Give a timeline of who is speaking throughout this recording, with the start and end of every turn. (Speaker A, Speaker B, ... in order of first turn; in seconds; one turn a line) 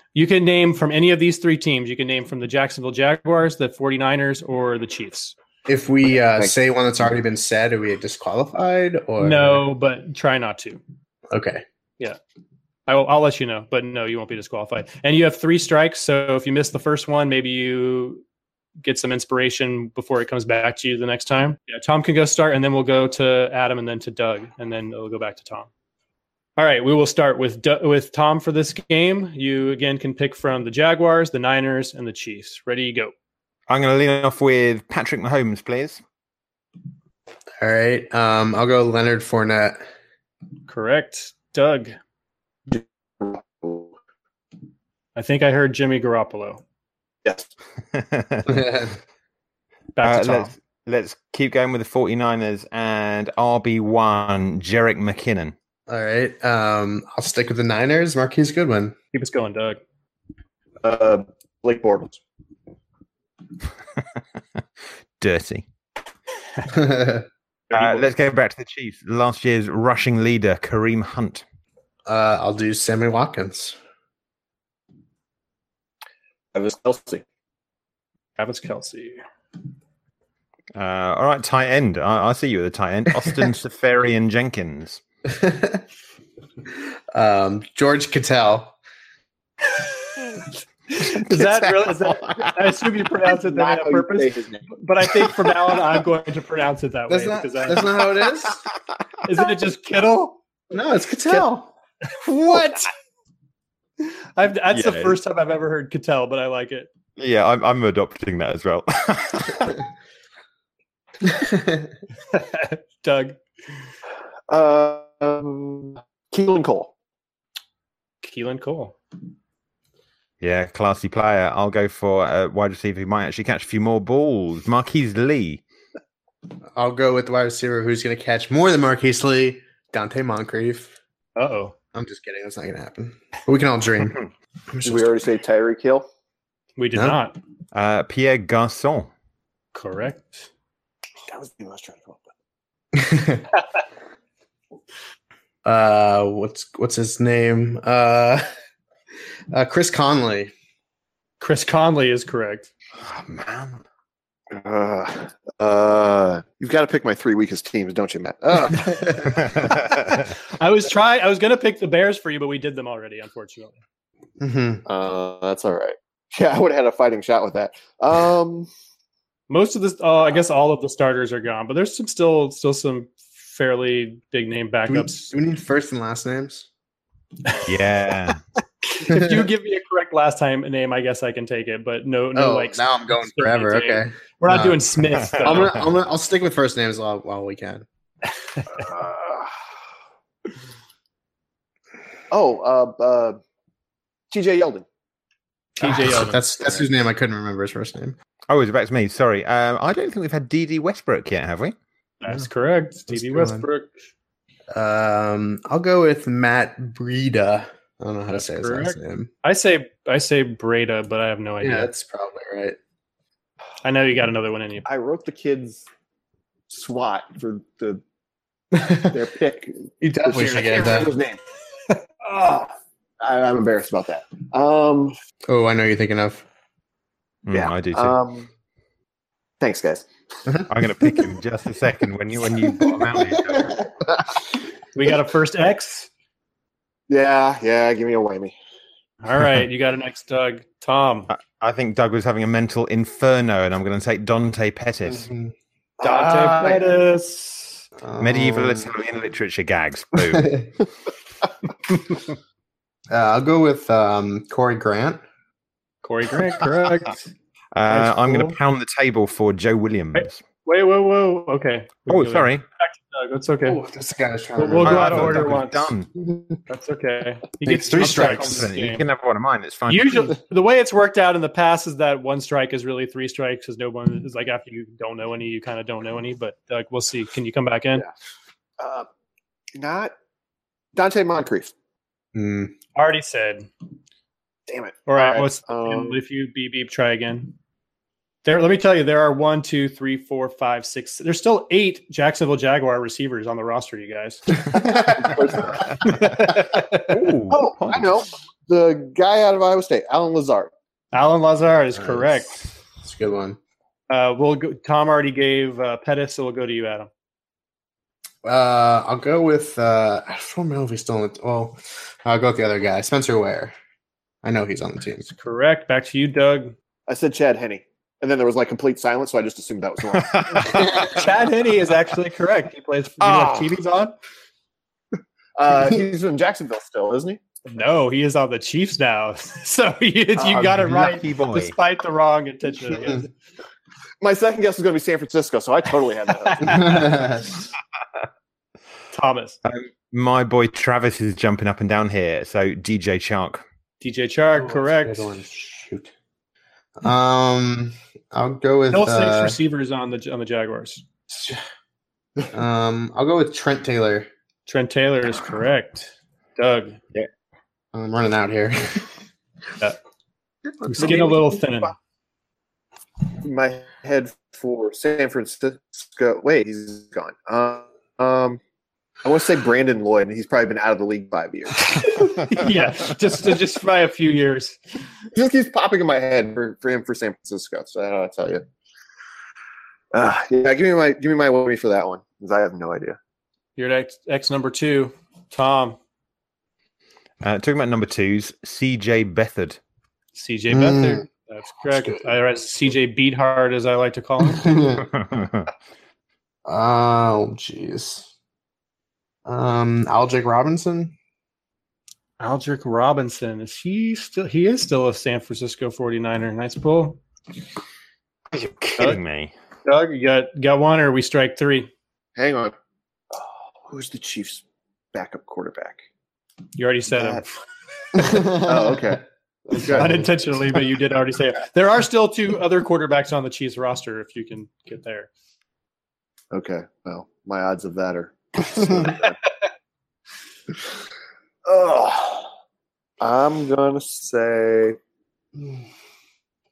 Speaker A: 0.1-5.3
Speaker B: 5.7-9.6
Speaker A: 9.2-10.8
Speaker B: 11.3-11.6
Speaker A: 12.9-18.2
Speaker A: 18.8-25.7
Speaker A: 26.6-33.1
Speaker C: 33.7-36.0
Speaker B: 37.6-39.8
Speaker A: 40.7-42.0
Speaker D: 42.7-43.9
Speaker A: 45.2-46.6
Speaker C: 47.9-48.6
Speaker B: 48.5-49.0
Speaker A: 50.0-50.5
Speaker C: 50.0-55.5
Speaker B: 55.9-59.0
Speaker A: 59.1-59.8
Speaker D: 60.8-62.2
Speaker C: 65.2-65.6
Speaker B: 66.7-67.3
Speaker A: 67.7-68.1
Speaker C: 67.7-71.4
Speaker B: 72.1-73.8
Speaker D: 76.5-77.2
Speaker A: 78.4-79.2
Speaker C: 80.8-85.0
Speaker B: 85.2-85.8
Speaker B: 87.1-88.8
Speaker A: 90.9-98.0
Speaker D: 93.2-94.7
Speaker B: 97.1-98.6
Speaker A: 99.2-100.4
Speaker B: 100.7-101.7
Speaker A: 102.1-102.9
Speaker A: 104.0-106.9
Speaker C: 104.7-105.2
Speaker C: 107.2-109.8
Speaker B: 111.2-111.9
Speaker A: 112.3-113.4
Speaker D: 114.5-116.9
Speaker A: 118.2-119.0
Speaker C: 120.4-125.6
Speaker B: 126.8-131.0
Speaker A: 131.4-131.7
Speaker B: 131.9-134.2
Speaker B: 134.7-135.1
Speaker D: 134.8-136.1
Speaker A: 136.8-137.4
Speaker C: 137.7-139.1
Speaker A: 139.7-140.5
Speaker D: 141.3-142.3
Speaker B: 142.9-143.5
Speaker B: 145.6-148.5
Speaker B: 149.5-150.5
Speaker A: 151.4-152.7
Speaker C: 153.0-153.8
Speaker D: 154.5-159.1
Speaker B: 158.5-159.5
Speaker C: 159.4-160.3
Speaker A: 160.5-163.8
Speaker B: 164.4-164.8
Speaker D: 164.9-168.7
Speaker A: 169.5-175.3
Speaker B: 174.9-176.7
Speaker C: 177.7-178.4
Speaker A: 178.8-185.8
Speaker B: 179.1-179.5
Speaker B: 182.3-187.9
Speaker C: 185.4-185.8
Speaker D: 188.7-189.5
Speaker D: 192.3-193.4
Speaker D: 194.3-194.8
Speaker A: 195.8-196.4
Speaker B: 195.8-198.2
Speaker C: 198.5-201.8
Speaker A: 202.2-203.9
Speaker B: 203.1-203.7
Speaker B: 204.7-209.3
Speaker A: 208.3-211.9
Speaker B: 211.6-212.8
Speaker A: 213.8-214.9
Speaker D: 214.8-215.9
Speaker D: 216.7-218.0
Speaker B: 218.7-219.2
Speaker D: 219.1-221.4
Speaker B: 220.0-221.1
Speaker D: 222.3-222.7
Speaker D: 223.2-225.2
Speaker B: 225.5-226.4
Speaker C: 227.5-228.2
Speaker D: 227.5-228.5
Speaker D: 229.6-230.1
Speaker B: 230.5-231.3
Speaker C: 230.7-233.8
Speaker B: 232.6-233.9
Speaker A: 234.9-236.1
Speaker D: 237.1-238.5
Speaker A: 239.2-241.3
Speaker C: 241.3-245.3
Speaker B: 245.0-246.8
Speaker A: 246.0-247.8
Speaker B: 248.0-248.9
Speaker C: 248.2-250.6
Speaker B: 250.2-250.7
Speaker B: 253.1-255.2
Speaker A: 256.0-257.3
Speaker C: 257.7-260.4
Speaker A: 257.9-258.6
Speaker A: 260.1-263.8
Speaker C: 262.1-262.6
Speaker B: 263.6-265.6
Speaker A: 264.6-265.9
Speaker C: 264.8-266.1
Speaker A: 266.7-269.0
Speaker B: 267.6-268.7
Speaker C: 268.0-270.4
Speaker A: 269.9-278.0
Speaker D: 278.8-279.1
Speaker D: 279.8-280.1
Speaker D: 280.9-281.7
Speaker B: 282.4-282.7
Speaker A: 283.0-283.7
Speaker D: 284.7-286.2
Speaker A: 285.1-287.5
Speaker A: 288.4-294.8
Speaker B: 294.7-295.8
Speaker D: 295.0-295.9
Speaker A: 296.0-297.2
Speaker C: 297.1-298.1
Speaker D: 297.5-300.7
Speaker A: 301.1-302.5
Speaker B: 302.0-302.4
Speaker B: 303.0-303.6
Speaker A: 304.1-307.1
Speaker B: 308.4-313.8
Speaker B: 314.4-315.3
Speaker A: 315.3-316.8
Speaker D: 317.1-321.2
Speaker C: 320.2-321.1
Speaker B: 320.7-321.0
Speaker A: 320.8-324.1
Speaker C: 323.2-323.7
Speaker D: 325.6-327.4
Speaker A: 327.7-333.3
Speaker C: 330.4-331.7
Speaker B: 332.9-333.2
Speaker D: 334.2-337.0
Speaker A: 336.4-337.2
Speaker B: 336.7-337.6
Speaker A: 339.1-339.6
Speaker C: 339.6-343.6
Speaker A: 344.0-345.4
Speaker B: 344.5-346.1
Speaker B: 347.0-349.6
Speaker A: 348.9-351.1
Speaker B: 352.5-354.3
Speaker A: 354.7-357.0
Speaker B: 357.9-359.1
Speaker B: 360.8-361.5
Speaker A: 360.9-361.9
Speaker D: 361.0-361.9
Speaker D: 363.4-368.6
Speaker D: 369.2-372.1
Speaker A: 371.9-374.8
Speaker D: 375.3-378.6
Speaker D: 380.1-383.2
Speaker A: 383.8-386.0
Speaker C: 387.4-389.8
Speaker A: 390.4-394.7
Speaker B: 390.7-391.2
Speaker B: 391.9-392.2
Speaker B: 394.4-395.1
Speaker C: 395.1-395.7
Speaker B: 396.7-398.3
Speaker B: 399.5-401.1
Speaker A: 402.4-407.2
Speaker C: 408.5-409.5
Speaker A: 409.9-411.9
Speaker D: 412.4-412.8
Speaker D: 413.3-414.6
Speaker D: 415.1-416.0
Speaker A: 416.8-417.5
Speaker D: 417.1-417.4
Speaker B: 418.1-419.2
Speaker D: 418.4-420.3
Speaker B: 419.7-420.3
Speaker A: 419.9-425.3
Speaker D: 426.5-429.4
Speaker B: 428.8-429.1
Speaker D: 431.6-432.5
Speaker D: 433.2-435.0